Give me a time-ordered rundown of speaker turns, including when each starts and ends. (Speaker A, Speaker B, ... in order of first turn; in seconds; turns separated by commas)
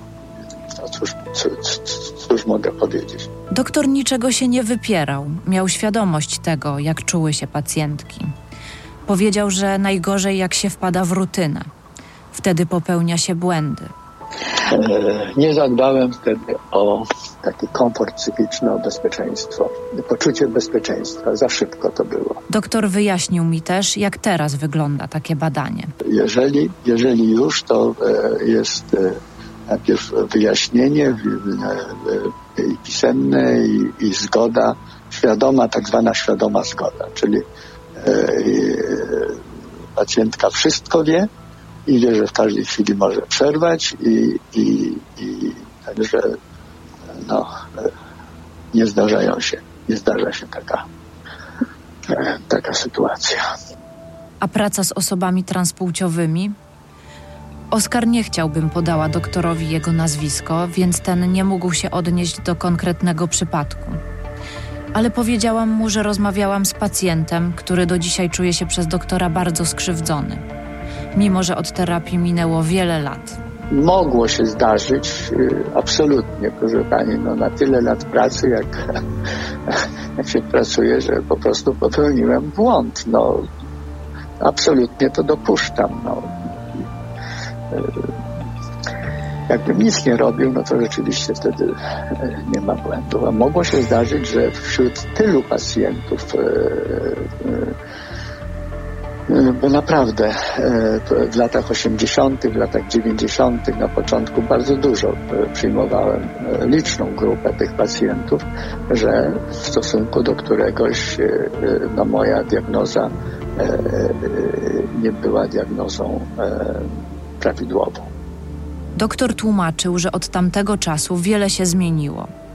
Speaker A: 0.7-3.3, Speaker B: 3.5-8.3, Speaker B: 9.1-11.7, Speaker B: 12.3-13.9, Speaker A: 14.7-22.4, Speaker B: 22.5-25.9, Speaker A: 26.1-37.4, Speaker A: 38.0-39.4, Speaker A: 40.0-41.3, Speaker A: 41.9-46.4, Speaker A: 47.1-47.9, Speaker A: 48.7-50.8, Speaker A: 52.1-53.4, Speaker B: 54.4-56.5, Speaker B: 57.7-64.0, Speaker B: 64.9-70.4, Speaker B: 71.2-73.4, Speaker A: 73.7-78.8, Speaker A: 79.7-83.5, Speaker A: 84.4-86.8, Speaker A: 87.7-88.1, Speaker A: 89.5-97.7, Speaker A: 99.3-116.9, Speaker A: 117.4-118.1, Speaker B: 119.0-122.3